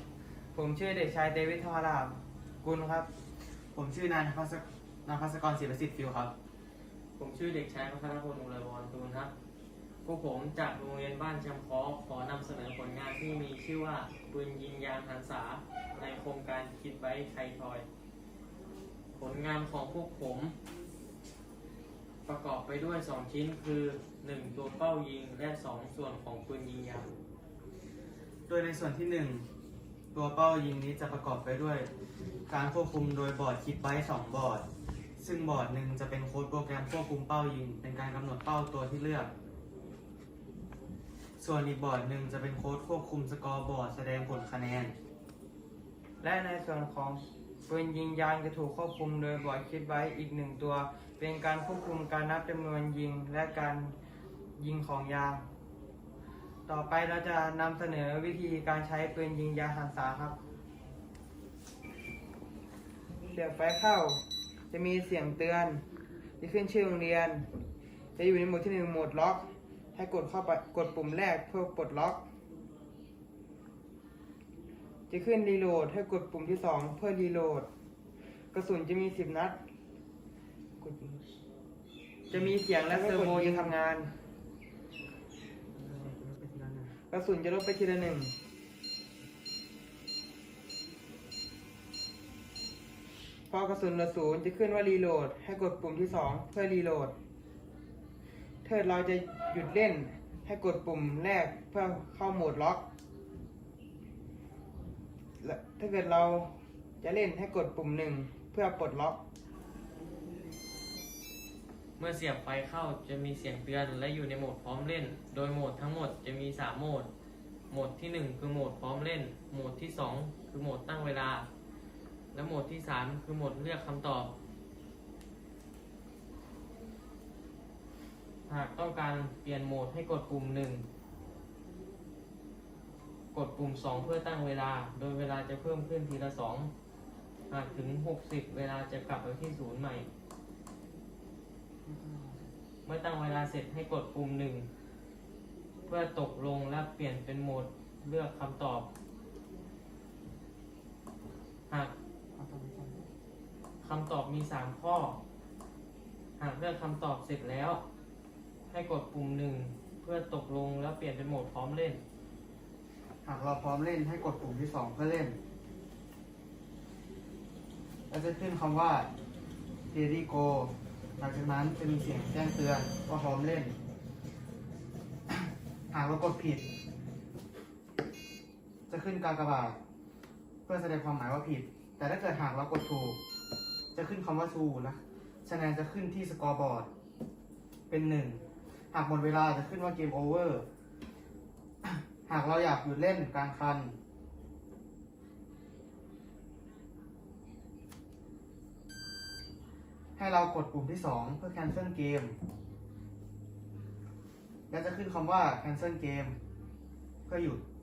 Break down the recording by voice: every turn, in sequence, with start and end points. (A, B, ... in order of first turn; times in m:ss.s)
0:00.5-0:03.1 A
0:03.7-0:06.3 B
0:07.2-0:09.3 C
0:10.0-0:17.9 C
0:19.1-0:20.5 C
0:22.2-0:27.1 C
0:28.5-0:29.4 B
0:30.1-0:31.9 B
0:32.5-0:34.6 B
0:35.2-0:39.3 B
0:41.4-0:44.9 B
0:46.2-0:53.9 A
0:54.6-0:55.4 A
0:56.7-1:00.4 A
1:03.3-1:05.8 A
1:06.4-1:07.4 A
1:08.2-1:12.2 A
1:15.1-1:17.7 A
1:18.5-1:19.6 A
1:20.8-1:21.2 A
1:22.3-1:24.1 A
1:22.3-1:23.8 B
1:25.7-1:26.9 B
1:27.1-1:28.3 A
1:33.5-1:37.1 A
1:38.6-1:42.8 A
1:45.4-1:49.2 A
1:52.0-1:57.1 C
1:57.7-2:01.4 C
2:02.3-2:04.3 C
2:08.5-2:10.8 C
2:13.3-2:16.7 C
2:17.5-2:20.1 C
2:21.8-2:22.5 B
2:22.8-2:24.7 C
2:25.9-2:28.9 C
2:31.7-2:31.9 C
2:32.3-2:33.0 B
2:33.8-2:35.2 C
2:36.4-2:37.8 C
2:38.7-2:42.0 C
2:43.2-2:45.4 B
2:48.1-2:49.1 B
2:49.9-2:53.7 B
2:55.9-2:56.6 B
2:58.9-2:59.8 B
3:00.6-3:03.2 B
3:03.9-3:06.9 B
3:07.9-3:10.6 B
3:11.8-3:13.9 B
3:20.2-3:22.4 B
3:24.7-3:26.4 B
3:27.3-3:27.6 B